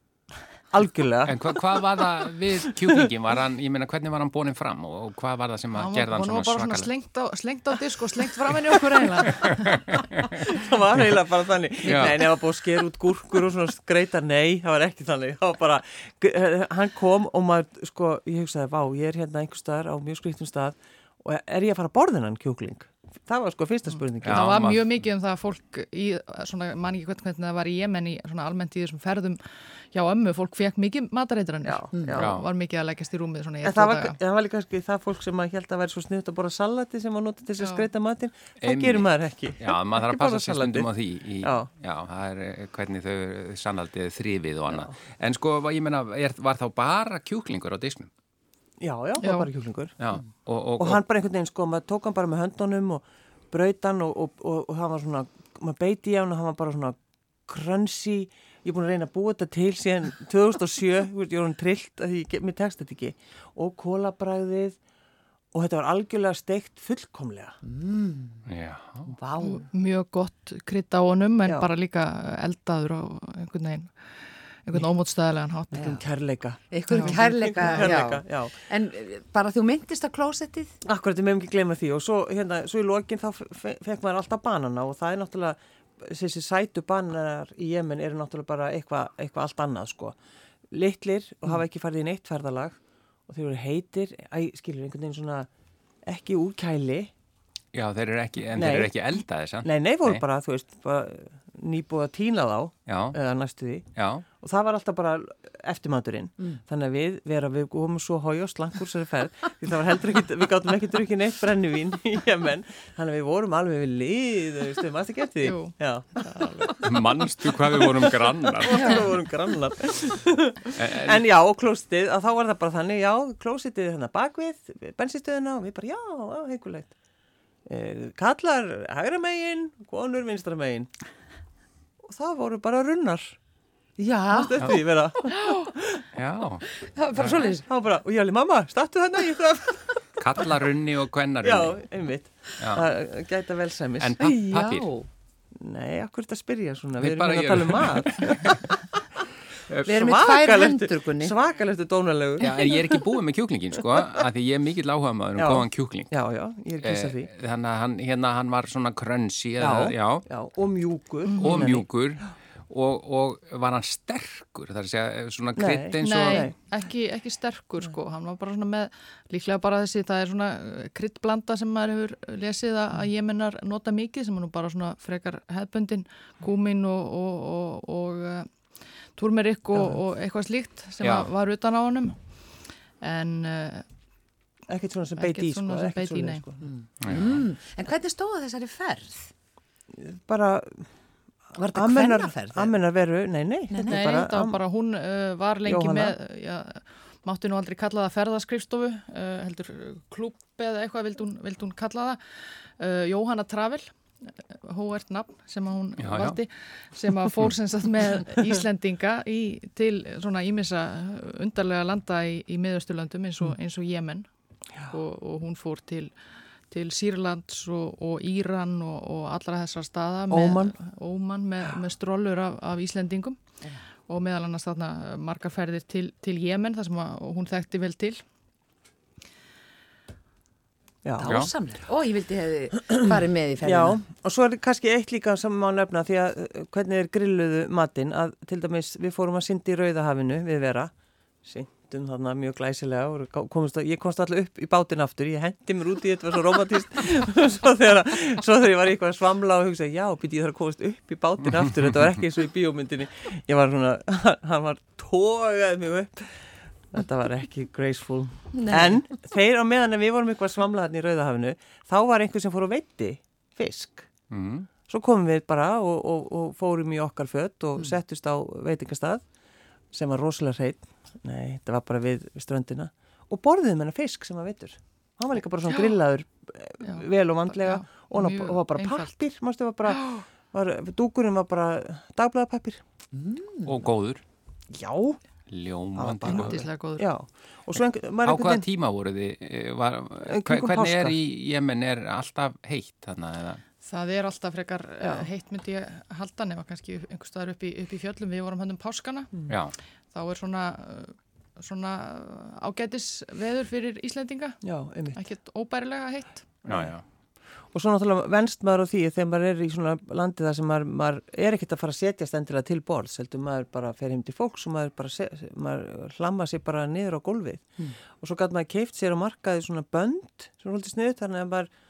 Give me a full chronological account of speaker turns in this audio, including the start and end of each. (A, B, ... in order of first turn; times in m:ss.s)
0:00.7-0:01.5 A
0:01.2-0:06.9 B
0:05.7-0:09.8 C
0:09.9-0:10.3 B
0:10.4-0:24.5 A
0:11.8-0:12.2 B
0:24.2-0:24.9 B
0:24.3-0:34.2 C
0:31.6-0:32.3 A
0:32.1-0:32.5 B
0:33.6-0:40.9 A
0:37.6-0:37.9 C
0:38.6-0:48.1 B
0:41.4-0:41.7 A
0:48.8-0:50.0 A
0:49.2-0:49.5 C
0:50.0-0:51.0 B
0:50.8-0:57.0 A
0:57.5-1:04.8 A
1:05.5-1:07.6 A
1:07.6-1:08.4 D
1:08.4-1:09.1 B
1:09.1-1:09.6 D
1:09.4-1:13.9 C
1:14.6-1:16.0 C
1:15.7-1:18.6 A
1:15.7-1:16.0 D
1:16.7-1:20.8 D
1:16.9-1:17.9 C
1:20.8-1:30.2 A
1:30.7-1:35.5 A
1:36.0-1:37.1 A
1:37.7-1:40.2 B
1:38.5-1:38.9 A
1:39.6-1:43.8 A
1:42.9-1:43.2 B
1:44.0-1:44.2 B
1:44.4-1:56.7 A
1:55.4-1:56.7 C
1:56.8-1:59.1 B
1:58.0-2:06.9 A
2:00.8-2:01.2 B
2:07.7-2:10.9 A
2:12.0-2:13.4 A
2:14.0-2:14.8 D
2:14.3-2:16.0 A
2:16.1-2:17.4 B
2:16.8-2:17.6 D
2:17.4-2:20.0 A
2:20.2-2:21.8 B
2:21.4-2:24.2 A
2:22.6-2:22.9 B
2:24.0-2:24.9 B
2:24.2-2:25.1 D
2:25.6-2:28.8 A
2:27.0-2:28.5 B
2:29.7-2:29.9 B
2:29.8-2:33.0 A
2:29.9-2:31.3 D
2:32.4-2:36.1 B
2:35.4-2:37.3 A
2:36.8-2:40.2 B
2:39.6-2:41.9 A
2:41.2-2:41.7 C
2:41.4-2:46.5 B
2:45.6-2:46.5 A
2:46.0-2:58.5 C
2:59.2-3:02.2 C
2:59.7-3:00.0 A
3:01.0-3:01.3 B
3:03.0-3:03.8 C
3:04.7-3:06.6 A
3:05.2-3:06.4 C
3:06.6-3:09.3 D
3:07.0-3:07.4 B
3:09.9-3:10.9 A
3:11.5-3:12.7 D
3:11.7-3:14.6 A
3:13.7-3:14.0 D
3:13.8-3:23.9 C
3:15.6-3:16.2 A
3:24.5-3:34.3 C
3:26.0-3:26.4 B
3:34.9-3:36.1 C
3:36.7-3:43.4 C
3:40.3-3:40.8 A
3:44.1-3:48.2 C
3:51.0-3:51.4 A
3:51.2-3:54.0 D
3:51.2-3:51.5 B
3:53.6-4:00.9 A
4:01.4-4:24.1 A
4:18.5-4:19.0 D
4:24.3-4:24.7 B
4:24.9-4:29.2 A
4:29.9-4:42.8 A
4:35.7-4:35.9 C
4:36.8-4:39.1 C
4:43.1-4:43.7 D
4:43.6-4:44.2 B
4:44.7-4:45.2 A
4:45.5-4:46.6 B
4:46.0-4:48.7 A
4:46.2-4:47.1 C
4:48.2-4:53.6 B
4:50.2-4:51.2 A
4:53.8-4:59.3 C
4:55.0-4:55.3 A
4:59.5-4:59.7 B
5:00.1-5:04.6 C
5:04.6-5:05.2 A
5:05.1-5:06.5 C
5:06.6-5:07.0 B
5:07.7-5:21.7 A